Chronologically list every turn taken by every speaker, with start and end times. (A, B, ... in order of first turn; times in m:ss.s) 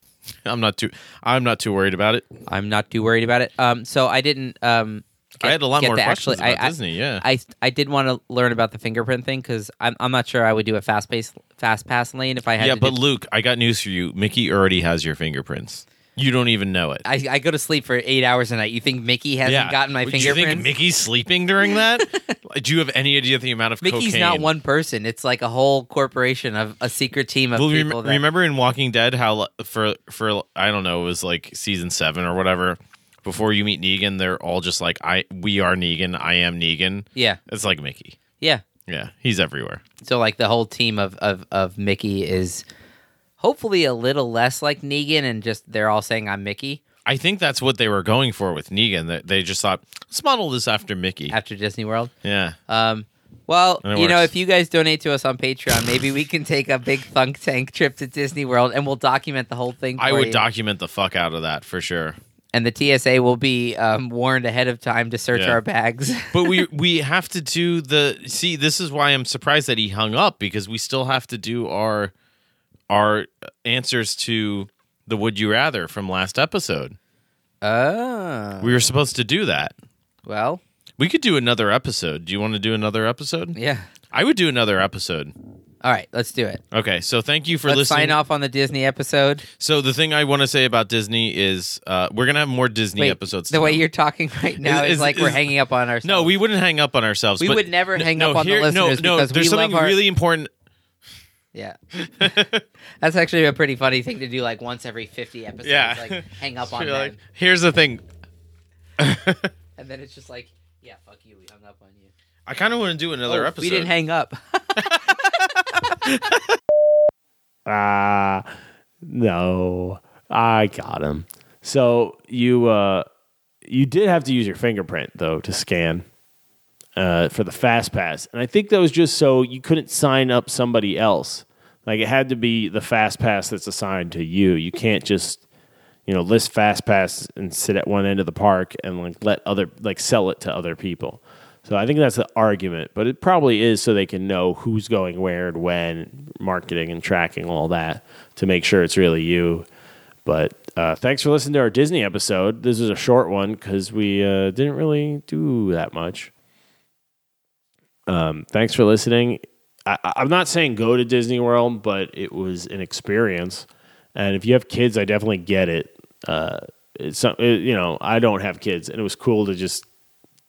0:00.4-0:02.2 A
0:02.5-0:12.9 B
0:05.4-0:07.2 A
0:12.6-0:17.0 A
0:17.0-0:20.7 B
0:19.4-0:24.5 A
0:21.7-0:22.3 B
0:23.8-0:28.2 B
0:27.6-0:38.2 A
0:38.8-0:39.8 A
0:40.0-0:42.6 B
0:43.4-0:46.8 B
0:47.0-0:51.4 A
0:51.3-0:52.1 B
0:52.2-0:52.6 A
0:52.7-1:00.4 B
0:53.8-0:54.3 A
1:00.0-1:02.2 A
1:02.5-1:06.6 B
1:05.3-1:05.6 A
1:06.3-1:12.1 A
1:12.9-1:17.0 A
1:17.6-1:18.8 B
1:18.6-1:19.7 A
1:20.2-1:20.6 B
1:21.0-1:23.6 A
1:23.5-1:23.9 B
1:24.1-1:25.3 A
1:25.8-1:26.6 B
1:26.7-1:28.2 A
1:27.6-1:29.4 B
1:29.6-1:33.8 A
1:33.0-1:36.3 B
1:34.6-1:35.5 A
1:36.0-1:40.5 A
1:37.4-1:40.0 B
1:41.5-1:42.4 B
1:42.1-1:42.6 A
1:43.0-1:47.2 B
1:45.6-1:48.0 A
1:49.0-1:49.5 A
1:49.8-1:52.1 B
1:52.5-1:53.9 A
1:53.3-1:55.3 B
1:54.8-1:55.2 A
1:57.6-1:58.4 C
1:59.0-2:03.0 C
2:03.6-2:06.0 C
2:07.0-2:15.4 C
2:16.0-2:29.7 C
2:30.2-2:36.3 C
2:38.1-2:49.8 C